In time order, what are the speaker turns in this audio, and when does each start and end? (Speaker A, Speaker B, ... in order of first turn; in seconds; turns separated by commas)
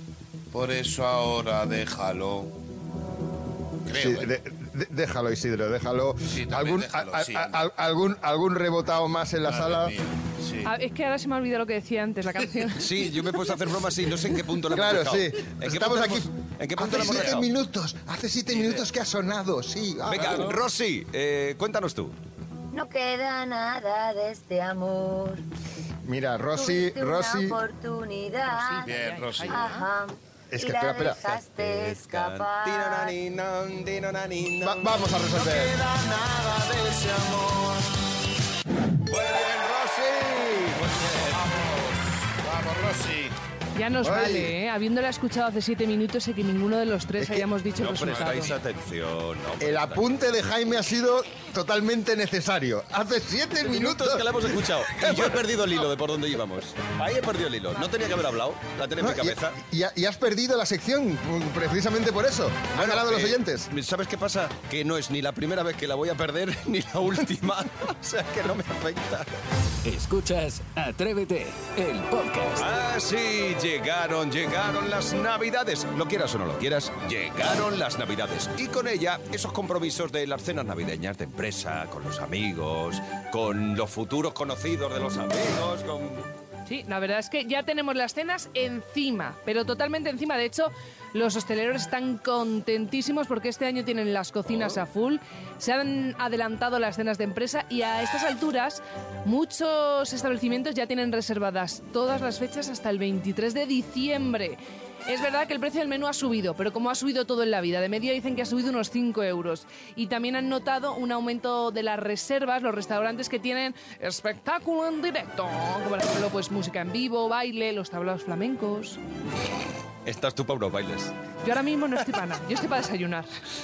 Speaker A: 0.5-2.6, Speaker A: 3.9-4.3, Speaker B: 3.9-9.9, Speaker A: 6.3-7.6, Speaker A: 9.4-10.7, Speaker C: 10.7-12.9, Speaker D: 12.8-17.5, Speaker B: 14.7-20.5, Speaker A: 18.5-18.8, Speaker A: 20.1-20.6, Speaker D: 20.1-22.2, Speaker E: 22.8-23.6, Speaker E: 24.3-25.2, Speaker B: 26.1-27.6, Speaker E: 26.6-28.9, Speaker C: 28.6-29.9, Speaker A: 28.8-29.8, Speaker E: 29.5-30.1, Speaker B: 30.5-31.7, Speaker E: 30.6-33.1, Speaker D: 31.7-37.6, Speaker B: 34.6-35.8, Speaker D: 39.1-41.5, Speaker A: 41.3-43.3, Speaker C: 43.8-48.6, Speaker B: 44.0-44.5, Speaker D: 47.8-50.0, Speaker B: 49.6-55.4, Speaker D: 53.6-59.6, Speaker B: 59.0-63.7, Speaker D: 62.7-69.3, Speaker F: 69.8-72.7, Speaker D: 72.6-86.3, Speaker C: 86.7-119.0, Speaker D: 94.5-94.8, Speaker D: 120.1-121.1, Speaker C: 121.4-123.3